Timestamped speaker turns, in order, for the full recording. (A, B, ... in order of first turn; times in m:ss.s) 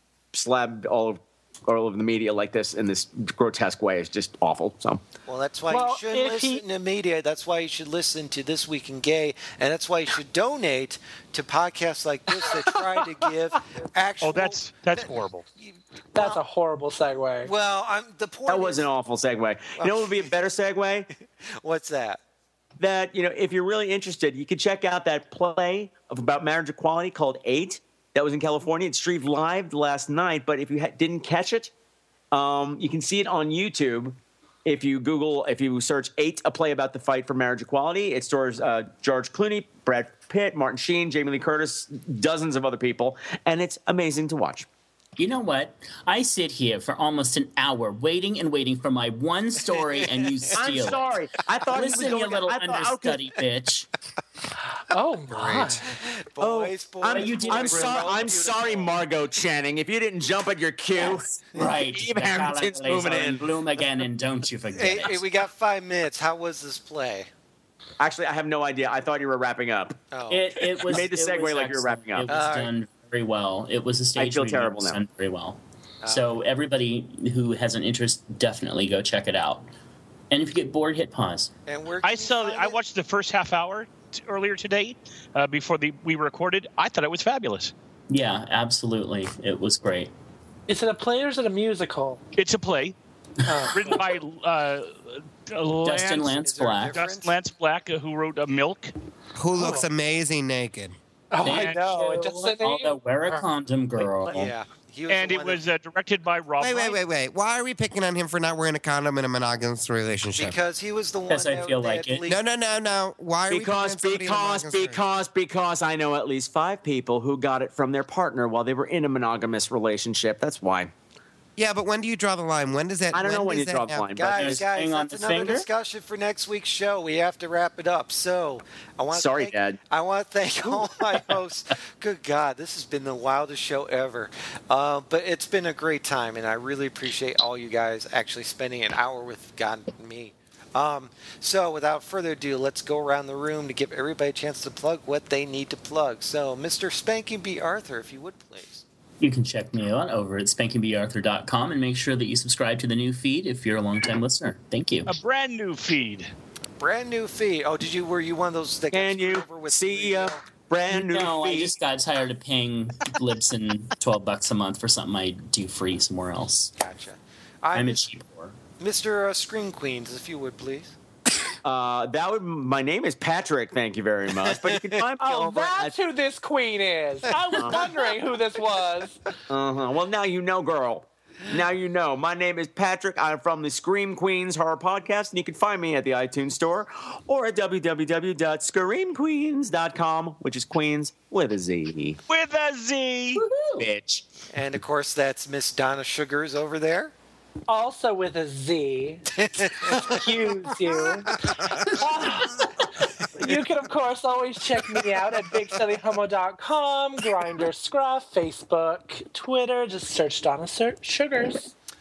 0:00.3-0:05.0 A
0:05.3-0:16.4 B
0:05.7-0:06.6 C
0:12.4-0:13.0 C
0:14.2-0:15.4 D
0:16.1-0:17.5 C
0:17.4-0:18.9 B
0:18.5-0:21.1 A
0:19.8-0:20.3 B
0:21.4-0:22.2 B
0:22.8-0:31.7 A
0:32.3-0:44.7 A
0:45.2-0:51.1 E
0:49.6-0:50.6 B
0:50.5-0:53.3 A
0:51.7-0:53.9 E
0:54.9-0:55.8 C
0:55.3-0:59.0 B
0:56.4-1:03.6 A
0:57.1-0:58.2 E
1:01.5-1:05.3 E
1:04.7-1:07.3 B
1:08.0-1:10.0 A
1:10.1-1:11.0 B
1:10.3-1:19.7 E
1:10.7-1:12.4 A
1:12.3-1:12.7 B
1:14.2-1:15.0 A
1:16.0-1:16.4 B
1:20.3-1:21.5 E
1:21.7-1:22.8 B
1:22.0-1:27.7 D
1:28.1-1:30.1 E
1:30.7-1:32.2 C
1:32.4-1:33.0 D
1:33.4-1:34.0 C
1:33.7-1:36.4 D
1:35.8-1:37.0 E
1:36.4-1:37.4 B
1:37.0-1:38.9 D
1:39.4-1:41.0 F
1:39.6-1:39.9 C
1:41.3-1:43.0 C
1:41.4-1:44.5 E
1:41.5-1:42.2 D
1:44.3-1:45.6 B
1:45.1-1:47.0 D
1:46.6-1:50.6 F
1:50.4-1:52.4 B
1:51.3-1:52.3 E
1:52.3-1:55.0 F
1:53.5-2:00.9 A
2:01.6-2:04.0 F
2:03.1-2:04.6 A
2:04.2-2:28.8 B
2:04.4-2:05.7 E
2:09.1-2:09.8 A
2:29.2-2:35.2 E
2:35.1-2:36.3 D
2:36.8-2:40.5 B
2:38.9-2:41.8 A
2:40.9-2:46.7 E
2:46.8-2:48.1 B
2:47.8-2:48.6 E
2:48.8-2:51.0 B
2:51.6-2:55.9 A
2:54.5-2:55.0 B
2:55.2-2:59.2 C
2:57.5-2:57.9 B
2:57.6-2:58.0 A
2:59.5-3:12.2 A
3:12.3-3:13.4 D
3:13.5-3:13.8 C
3:13.8-3:14.2 A
3:14.5-3:17.1 B
3:17.7-3:19.3 C
3:19.4-3:21.5 B
3:19.8-3:31.7 C